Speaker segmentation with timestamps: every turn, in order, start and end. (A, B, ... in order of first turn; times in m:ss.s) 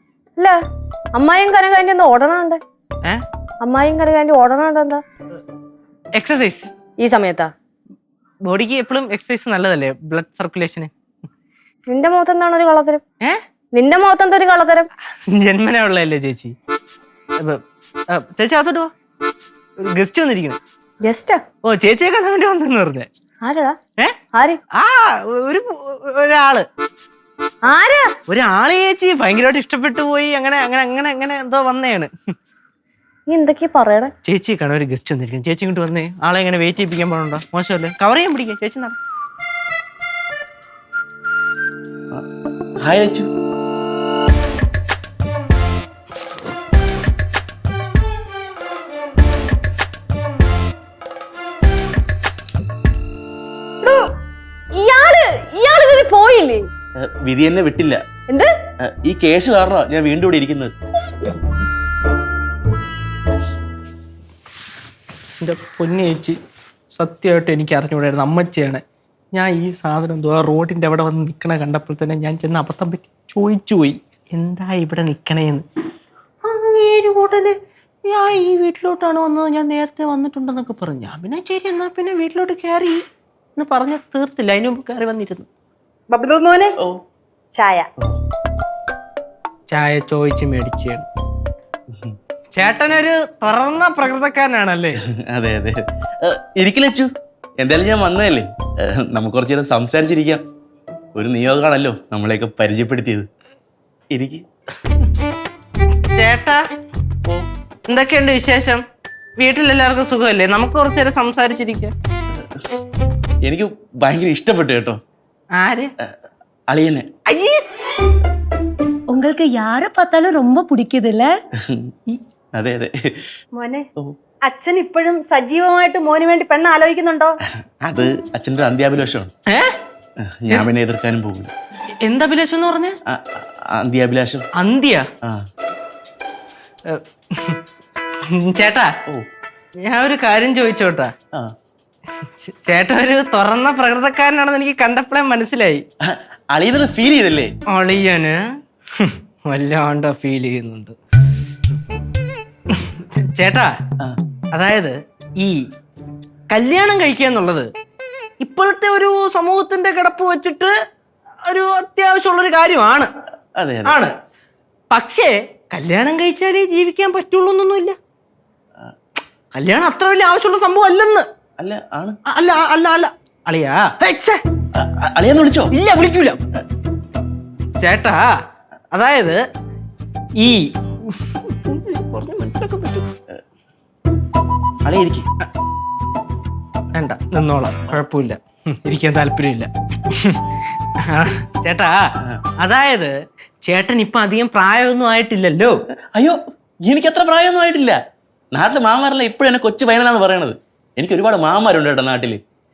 0:01.1-0:02.6 A
0:03.6-0:05.0 A
0:06.2-0:06.7 B
0:07.0-0:07.5 A
0:08.4-0:10.9 B
0:11.9-0:13.0 A
0:13.7-0:14.9 A
0:15.3-0:16.5 B
0:18.1-0:18.9 B
0:19.8-0:20.6 B
0:21.0-0:21.4 A
0:21.6-0:23.1 B
0:23.4-0:23.8 A
0:24.3-0:24.6 A
0:24.7-0:26.6 B
0:27.6-0:28.1 A
0:28.3-0:32.1 B
0:33.3-0:34.1 A
0:34.2-0:39.0 B
0:42.8-0:43.3 C
0:53.8-0:54.1 A
0:54.7-0:56.7 A
0:57.0-0:58.0 C
0:58.8-1:00.7 C
1:05.4-1:06.4 B
1:06.9-1:08.8 B
1:09.3-1:15.6 B
1:16.4-1:17.6 B
1:18.1-1:23.0 B
1:23.6-1:25.5 B
1:26.1-1:26.7 D
1:27.5-1:27.9 D
1:29.7-1:31.0 B
1:32.5-1:35.0 B
1:35.1-1:40.4 C
1:41.1-1:43.2 C
1:44.1-1:44.4 C
1:46.1-1:46.6 B
1:47.9-1:48.8 B
1:49.4-1:51.9 B
1:52.3-1:52.6 C
1:53.4-1:55.0 C
1:55.6-1:55.9 B
1:56.7-1:57.0 C
1:57.3-1:57.6 B
1:59.1-2:01.3 E
2:01.6-2:01.9 C
2:02.6-2:02.9 C
2:03.5-2:03.8 D
2:04.4-2:07.4 D
2:07.8-2:09.3 C
2:10.2-2:11.5 C
2:12.0-2:13.0 B
2:13.1-2:14.4 C
2:14.6-2:15.0 B
2:16.9-2:17.6 B
2:18.3-2:18.9 B
2:19.8-2:21.1 B
2:22.4-2:25.8 B
2:26.0-2:27.5 C
2:27.7-2:28.4 B
2:29.0-2:31.0 B
2:32.7-2:33.7 B
2:34.5-2:35.6 B
2:36.5-2:37.7 B
2:38.4-2:40.7 B
2:41.5-2:43.1 B
2:43.6-2:44.0 C
2:43.8-2:44.2 B
2:44.9-2:48.0 B
2:49.6-2:51.3 B
2:51.6-2:52.2 C
2:52.3-2:54.4 B
2:54.8-2:55.7 C
2:55.7-2:56.4 B
2:57.8-2:58.3 B
2:58.9-2:59.4 B
3:00.4-3:03.0 B
3:04.8-3:05.2 C
3:06.9-3:10.4 B
3:11.1-3:12.0 B
3:12.6-3:15.8 B
3:16.2-3:18.0 C
3:18.5-3:22.4 C